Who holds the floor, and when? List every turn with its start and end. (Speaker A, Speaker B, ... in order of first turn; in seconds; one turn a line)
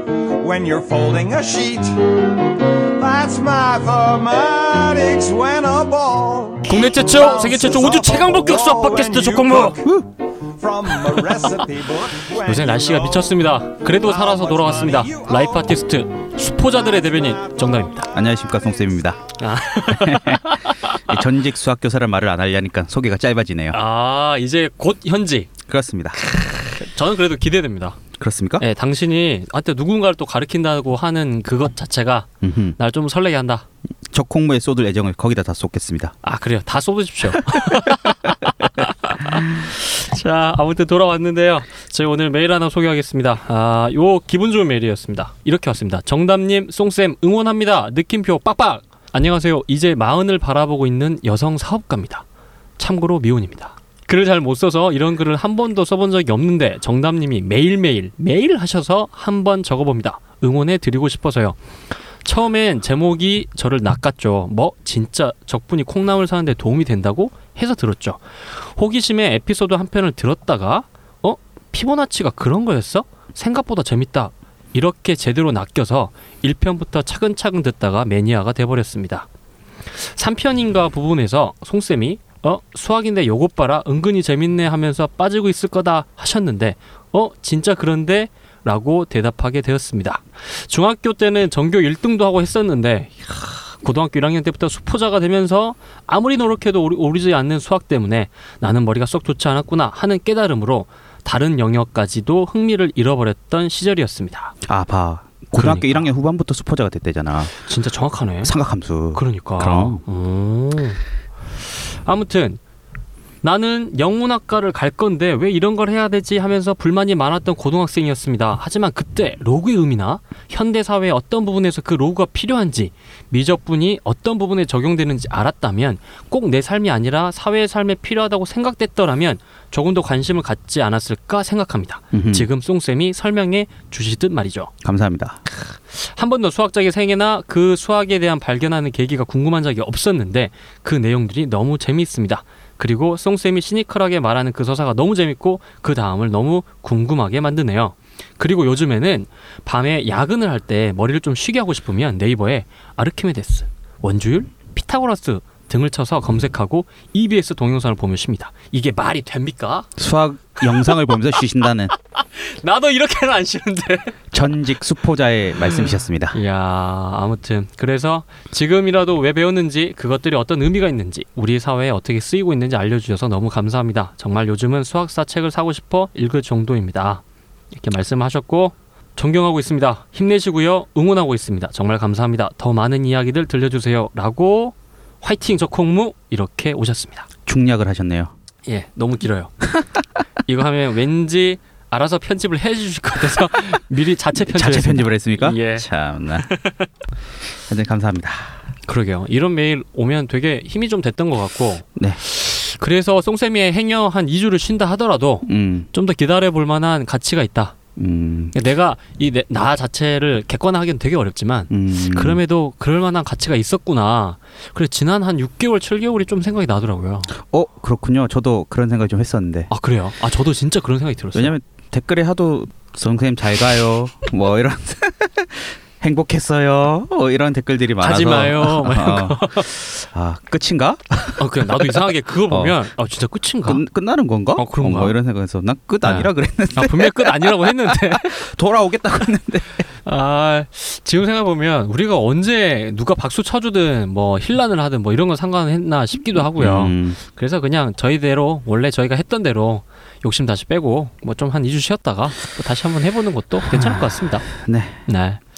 Speaker A: 0.2-15.7
Speaker B: 6.7-9.8
Speaker B: 12.4-18.1
Speaker A: 16.8-18.3
Speaker C: 18.1-19.2
Speaker B: 19.4-21.2
Speaker C: 19.7-23.8
Speaker B: 23.7-25.5
Speaker C: 25.7-26.2
Speaker B: 26.4-28.0
Speaker C: 28.2-28.6
Speaker B: 28.6-33.6
Speaker C: 32.4-32.8
Speaker C: 34.1-36.1
Speaker B: 36.2-52.2
Speaker C: 37.5-37.8
Speaker B: 52.8-61.6
Speaker B: 62.2-79.3
Speaker B: 80.0-104.5
Speaker C: 104.7-107.5
Speaker B: 105.5-106.0
Speaker B: 107.7-108.5
Speaker C: 108.4-110.0
Speaker B: 109.1-111.0
Speaker B: 111.7-112.6
Speaker B: 113.4-134.7
Speaker C: 132.1-132.5
Speaker C: 134.8-135.4
Speaker B: 135.5-159.9
Speaker C: 160.0-161.9
Speaker B: 160.7-161.0
Speaker B: 162.2-164.2
Speaker C: 164.3-166.4
Speaker B: 166.3-187.3
Speaker C: 187.5-188.3
Speaker B: 188.7-189.5
Speaker B: 190.5-195.9
Speaker C: 194.5-196.5
Speaker B: 196.4-196.9
Speaker C: 197.7-198.6
Speaker B: 198.9-207.8
Speaker C: 205.5-205.9
Speaker C: 208.0-208.6
Speaker B: 208.5-217.3
Speaker C: 211.7-212.4
Speaker C: 217.4-219.7
Speaker B: 219.7-221.6
Speaker C: 221.3-232.8
Speaker B: 228.0-229.8
Speaker B: 231.4-233.8
Speaker C: 233.7-239.8
Speaker B: 234.6-235.2
Speaker B: 236.0-238.4
Speaker B: 240.0-254.5
Speaker C: 246.6-247.2
Speaker C: 253.7-255.0
Speaker B: 255.1-255.4